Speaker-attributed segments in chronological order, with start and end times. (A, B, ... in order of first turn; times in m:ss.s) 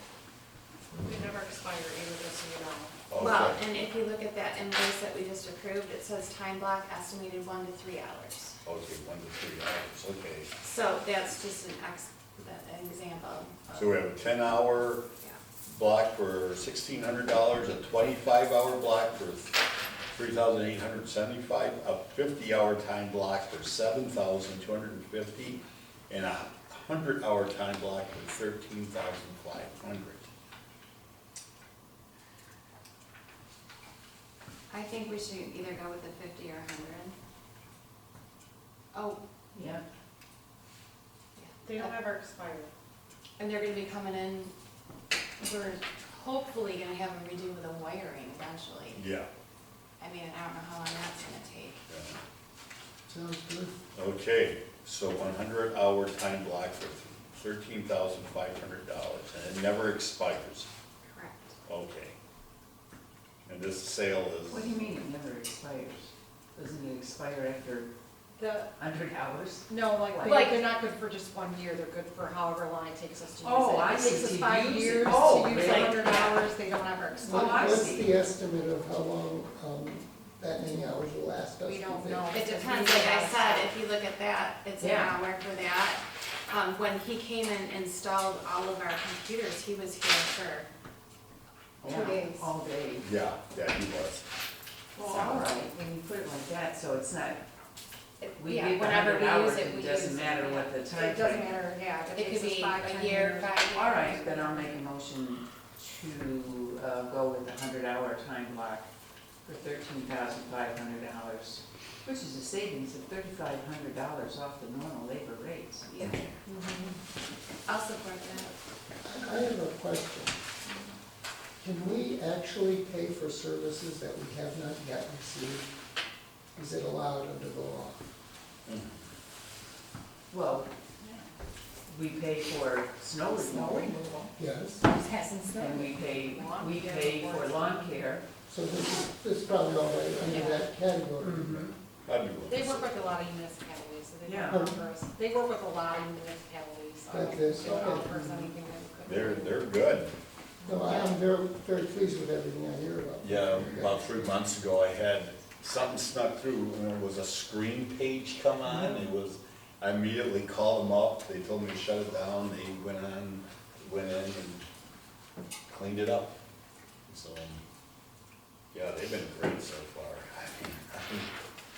0:00.9-0:02.9 A
0:03.1-0:03.6 B
0:03.1-0:08.6 C
0:08.6-0:10.5 B
0:10.6-0:14.0 C
0:13.8-0:15.0 B
0:15.7-0:19.6 B
0:20.1-0:30.3 B
0:34.7-0:37.2 C
0:38.9-0:39.2 C
0:39.5-0:39.8 D
0:41.4-0:41.9 C
0:41.6-0:42.7 A
0:43.4-0:44.5 C
0:45.4-0:49.0 C
0:48.9-0:49.3 B
0:50.0-0:51.8 C
0:51.9-0:52.2 B
0:53.1-0:53.8 E
0:54.0-1:00.7 B
1:01.1-1:01.6 C
1:01.7-1:02.2 B
1:03.4-1:04.8 B
1:04.5-1:07.9 D
1:08.4-1:08.7 A
1:08.8-1:10.6 D
1:09.7-1:17.8 A
1:13.4-1:16.4 D
1:15.5-1:16.2 C
1:17.2-1:18.2 D
1:17.2-1:22.2 E
1:21.6-1:23.8 A
1:22.3-1:30.7 C
1:24.8-1:25.2 D
1:31.8-1:33.1 D
1:31.8-1:32.5 C
1:33.0-1:34.2 B
1:35.0-1:37.4 D
1:35.0-1:35.5 B
1:38.2-1:40.8 C
1:38.4-1:41.6 D
1:40.9-1:44.7 A
1:42.2-1:44.1 C
1:43.7-1:48.9 D
1:49.4-1:56.2 D
1:55.9-1:57.0 C
1:57.7-1:58.5 C
1:59.0-2:00.4 E
2:00.6-2:00.9 C
2:01.6-2:05.7 E
2:06.6-2:08.0 E
2:08.7-2:09.0 B
2:10.3-2:10.7 D
2:11.9-2:14.3 D
2:13.6-2:14.0 A
2:14.4-2:14.9 E
2:14.8-2:17.8 A
2:15.5-2:18.2 D
2:18.5-2:21.7 E
2:20.3-2:20.6 A
2:21.2-2:21.7 D
2:22.1-2:23.2 B
2:22.5-2:29.7 A
2:24.2-2:24.6 D
2:24.5-2:24.8 E
2:27.1-2:28.1 E
2:27.6-2:28.5 D
2:29.0-2:30.1 B
2:30.6-2:31.1 A
2:30.6-2:34.2 E
2:33.2-2:44.6 B
2:45.7-2:46.3 B
2:47.1-2:47.6 B
2:48.7-2:51.3 B